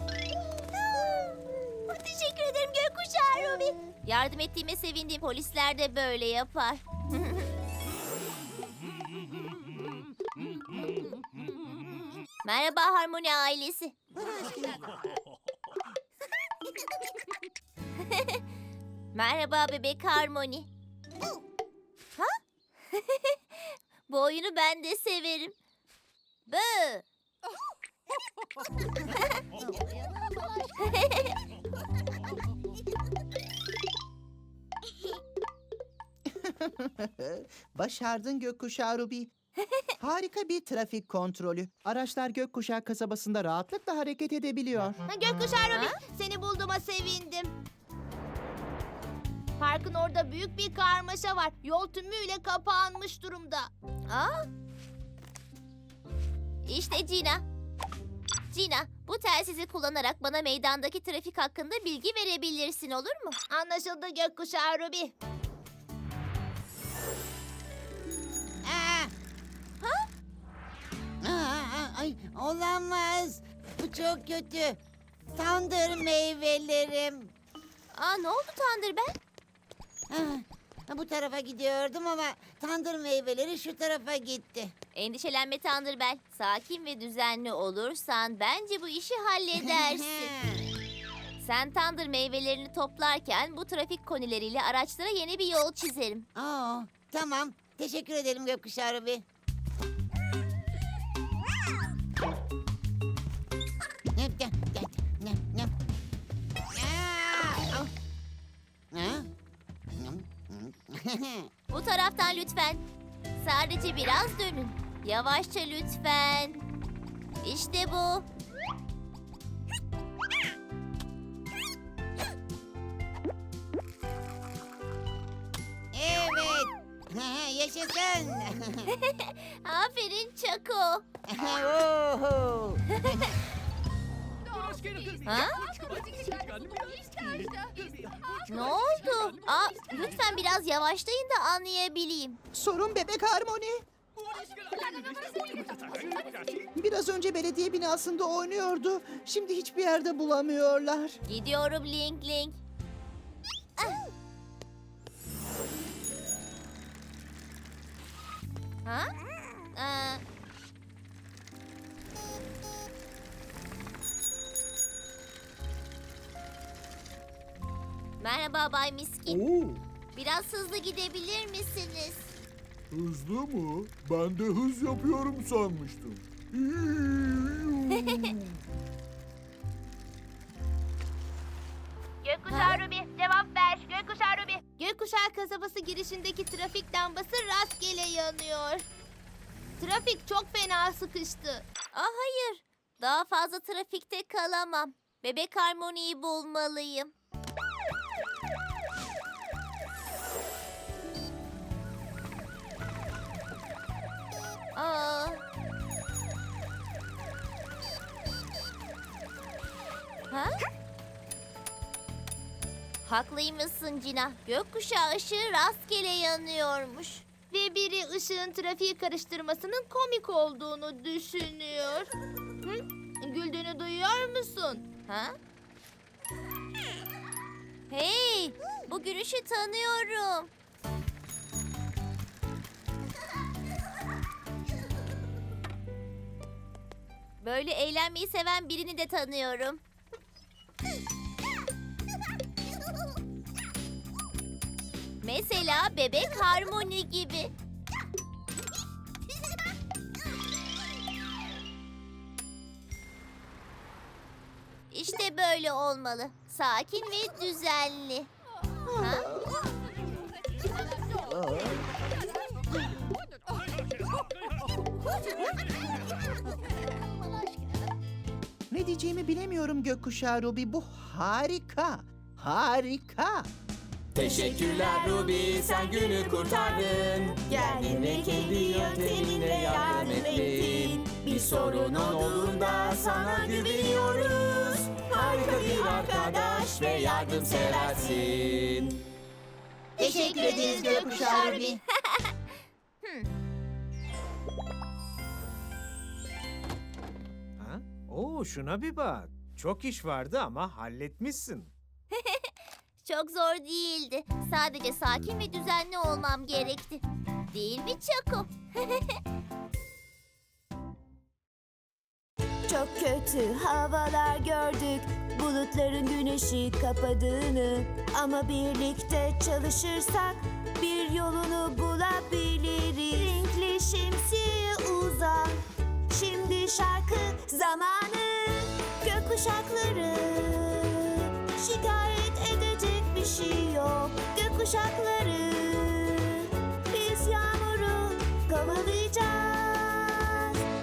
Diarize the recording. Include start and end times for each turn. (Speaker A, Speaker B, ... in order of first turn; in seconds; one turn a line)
Speaker A: 0.9-1.2
Speaker A: 1.9-7.5
Speaker A: 12.4-13.9
Speaker A: 18.0-18.4
Speaker A: 19.1-20.7
Speaker A: 22.9-25.5
Speaker A: 26.5-27.0
Speaker A: 30.8-31.3
Speaker B: 36.2-39.3
Speaker B: 40.0-45.0
Speaker C: 45.1-47.5
Speaker A: 45.7-46.0
Speaker C: 49.6-53.7
Speaker A: 54.1-54.5
Speaker A: 56.6-57.4
Speaker A: 58.5-63.4
Speaker C: 63.5-65.1
Speaker D: 68.6-69.1
Speaker A: 69.8-70.1
Speaker D: 71.2-74.8
Speaker D: 75.3-77.3
Speaker A: 77.9-79.1
Speaker D: 80.1-84.7
Speaker A: 84.9-90.3
Speaker D: 89.7-90.6
Speaker A: 91.4-96.3
Speaker D: 96.3-99.2
Speaker D: 104.2-105.7
Speaker D: 106.7-107.9
Speaker D: 108.9-109.3
Speaker D: 110.0-111.5
Speaker A: 111.7-112.8
Speaker A: 113.4-116.6
Speaker A: 117.4-118.2
Speaker D: 125.9-128.9
Speaker A: 128.9-131.0
Speaker D: 131.3-133.3
Speaker A: 133.0-133.2
Speaker A: 135.2-135.6
Speaker A: 138.5-142.4
Speaker B: 142.5-143.8
Speaker B: 146.7-151.2
Speaker A: 151.3-152.6
Speaker A: 158.8-159.1
Speaker A: 159.7-160.2
Speaker A: 168.2-169.4
Speaker E: 169.3-169.8
Speaker A: 170.1-172.3
Speaker E: 172.9-178.5
Speaker A: 178.0-178.3
Speaker C: 182.2-188.9
Speaker A: 182.5-182.8
Speaker C: 189.8-191.7
Speaker A: 191.9-197.1
Speaker A: 204.8-205.4
Speaker A: 213.0-217.2
Speaker C: 217.5-222.1
Speaker C: 222.6-224.9
Speaker A: 225.1-225.3
Speaker A: 227.9-230.5
Speaker A: 237.4-239.8
Speaker A: 245.2-247.5
Speaker A: 254.9-258.3
Speaker B: 258.9-259.7
Speaker A: 259.0-259.3
Speaker B: 261.1-261.9
Speaker B: 268.7-273.5
Speaker F: 274.1-289.0
Speaker G: 277.5-281.1
Speaker G: 285.3-288.1
Speaker B: 290.0-291.8
Speaker C: 290.0-291.8
Speaker A: 290.0-292.3
Speaker D: 290.1-291.8
Speaker A: 293.0-293.3
Speaker H: 297.6-301.7
Speaker A: 302.1-309.2
Speaker G: 312.7-340.5